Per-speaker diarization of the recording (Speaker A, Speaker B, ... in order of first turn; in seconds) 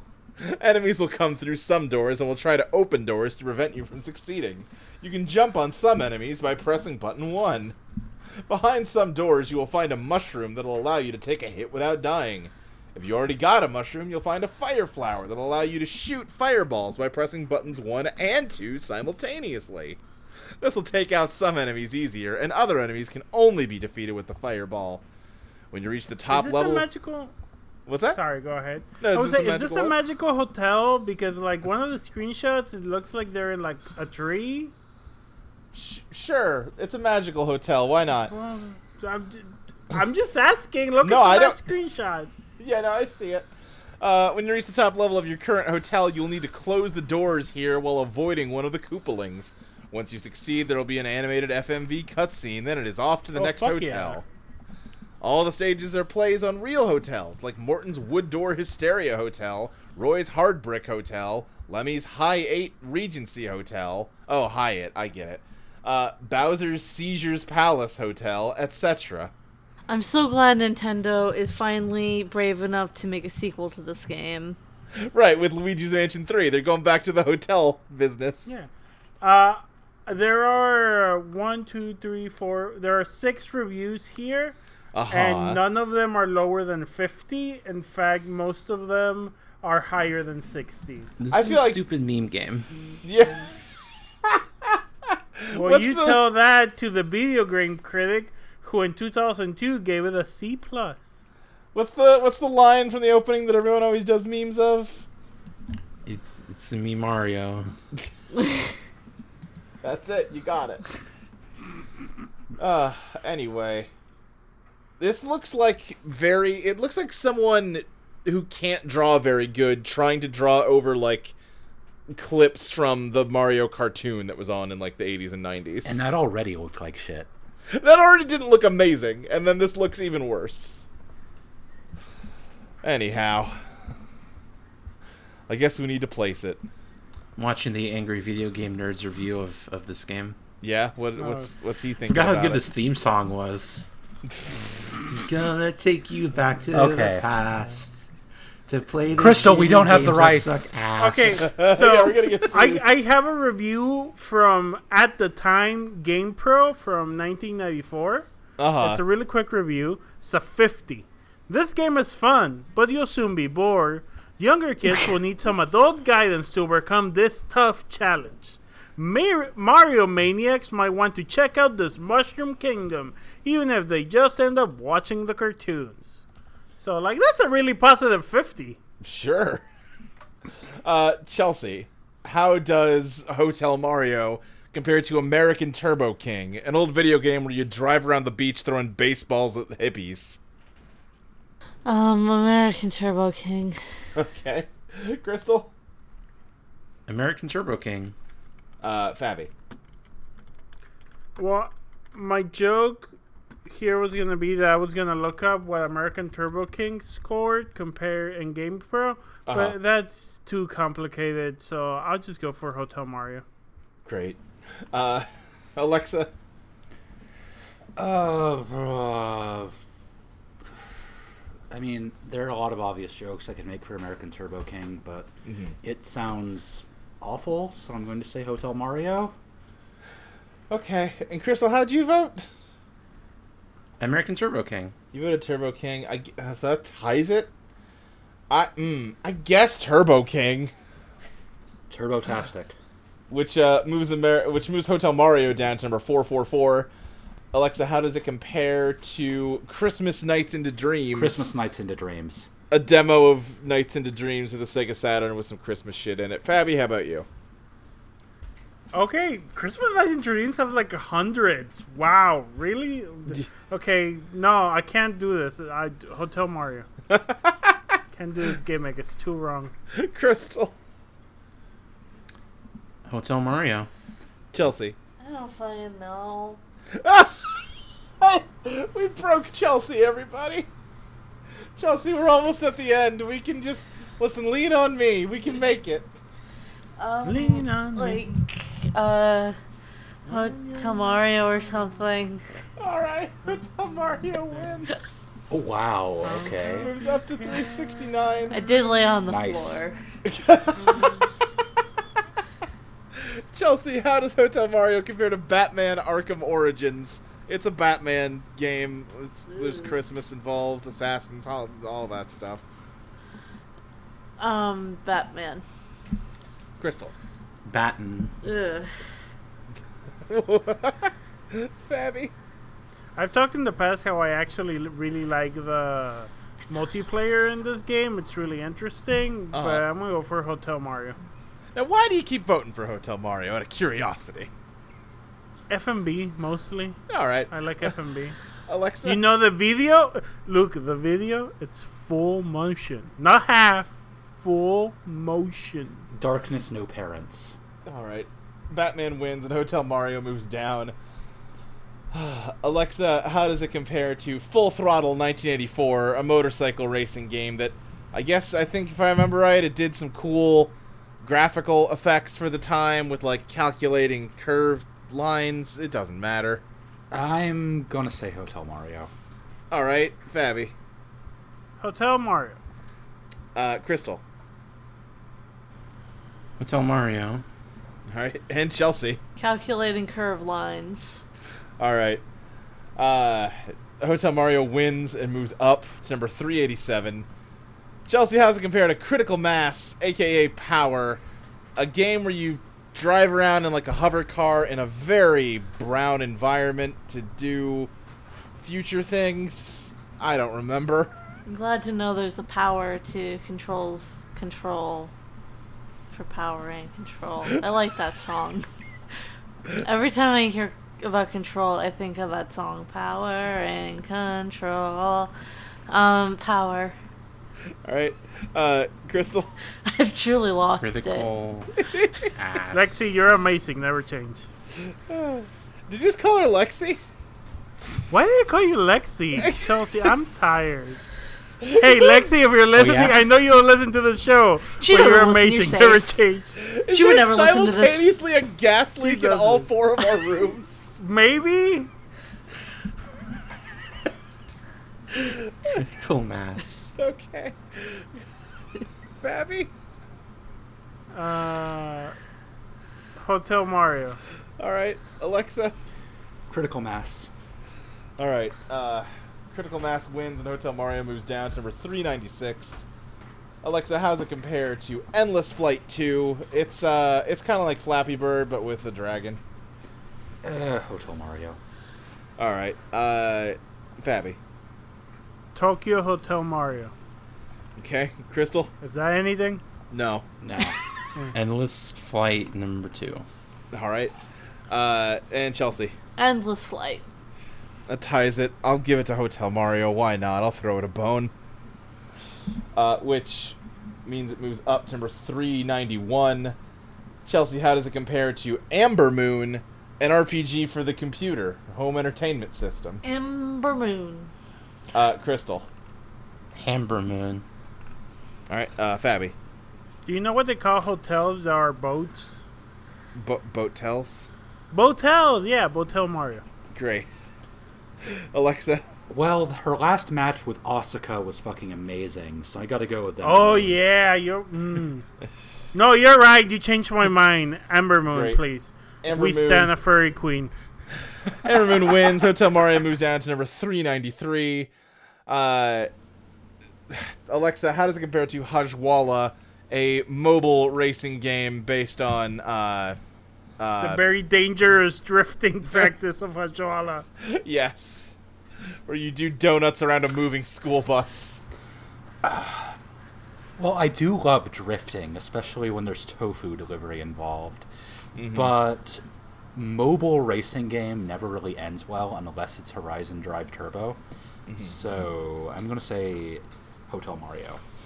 Speaker A: 0.4-7.8, 8.5-20.0, 20.6-25.0, 25.7-26.9, 27.9-28.2, 29.0-29.9, 35.7-38.3, 41.0-41.6, 42.6-43.5, 44.0-54.2, 55.2-69.3, 75.1-78.5, 84.9-85.6, 91.3-91.8, 93.0-93.5, 94.2-94.8, 95.4-96.2, 101.7-105.0, 109.8-110.8, 112.6-113.9, 115.0-121.3, 122.1-126.1, 127.7-130.9, 132.8-133.6, 135.5-136.6, 140.6-142.7, 151.4-152.8, 158.6-159.0, 179.0-179.6, 180.8-190.4, 194.2-195.7, 198.8-199.5, 209.5-209.8, 214.1-214.4, 214.9-216.3, 225.5-225.8, 230.7-232.4, 235.1-237.5, 238.5-240.7, 243.3-246.9, 247.5-251.5, 252.7-257.3, 267.1-268.0, 269.9-270.8, 274.5-275.0, 277.0-277.5, 278.2-280.7, 281.8-286.1, 292.8-295.2, 296.7-298.6, 300.2-301.3, 303.2-312.6, 316.8-317.1, 320.3-322.3, 329.5-329.8, 331.7-334.5, 337.1-337.9, 338.7-339.2, 347.9-350.9, 352.1-366.6, 369.7-370.7, 373.6-374.2, 378.1-379.2, 381.8-382.2, 383.0-387.3, 388.1-391.2, 391.8-397.9, 398.6-401.1, 417.9-419.5, 421.8-422.3, 424.8-427.0, 429.4-429.7, 431.6-432.3, 436.6-441.0, 445.1-445.8, 447.0-448.2, 449.2-449.7, 454.6-455.8, 458.2-462.9, 463.6-469.4, 472.4-474.4, 477.8-478.7, 479.9-480.2, 483.7-484.1, 484.7-485.9, 487.9-491.3, 492.8-496.6, 497.3-503.0, 504.9-505.7, 508.5-509.4, 513.1-514.3, 516.7-517.1, 518.0-518.8, 528.1-528.4, 529.0-529.7, 531.4-534.7, 535.3-535.9, 536.9-543.0, 543.6-544.0, 547.2-548.2, 548.9-551.4, 558.2-558.5, 564.5-564.7
Speaker B: 26.3-27.3, 28.1-34.7, 38.3-42.3, 53.4-54.2, 79.2-84.6, 85.1-91.1, 95.5-101.2, 141.2-141.5, 151.0-158.3, 158.8-176.2, 176.8-178.8, 201.4-203.1, 203.7-213.4, 258.9-266.9, 268.1-269.7, 287.2-288.3, 290.3-291.4, 296.2-297.8, 323.2-331.2, 335.7-338.4, 339.0-346.1, 371.8-372.6, 422.7-424.4, 428.1-431.0, 431.8-436.6, 439.0-439.7, 441.0-441.9, 451.1-452.1, 453.2-454.2, 475.6-476.9, 478.8-479.6, 510.1-512.4, 514.7-516.4, 523.2-525.1, 525.7-530.5, 543.8-547.1
Speaker C: 69.9-74.6, 191.8-193.8, 275.2-276.6, 287.0-289.6, 290.3-292.4, 298.5-300.0, 309.5-309.9, 314.4-315.6, 318.4-319.0, 379.4-381.2, 401.5-405.1, 406.1-408.7, 409.8-415.3, 415.9-417.0, 419.9-421.3, 434.8-436.2, 436.9-438.1, 486.2-487.0, 503.0-504.3
Speaker D: 91.2-92.7, 106.1-107.7, 137.4-140.4, 142.1-143.9, 145.1-148.1, 148.7-151.5, 197.1-198.1, 234.0-234.9, 273.1-273.9, 317.7-318.3, 376.6-377.4, 420.8-421.8, 422.4-423.4, 432.8-433.2, 445.8-446.9, 481.3-483.2, 506.6-507.4
Speaker E: 125.8-127.3, 146.7-147.3, 149.1-150.8, 218.0-219.8, 221.7-229.3, 241.9-242.8, 251.1-252.5, 295.5-296.9, 299.3-299.8, 346.1-347.6, 367.1-369.1, 427.8-428.1, 456.5-457.3, 470.4-471.6, 480.4-480.8, 519.1-523.8, 552.2-552.8, 553.6-557.7, 558.3-559.0, 559.5-564.0, 564.6-567.6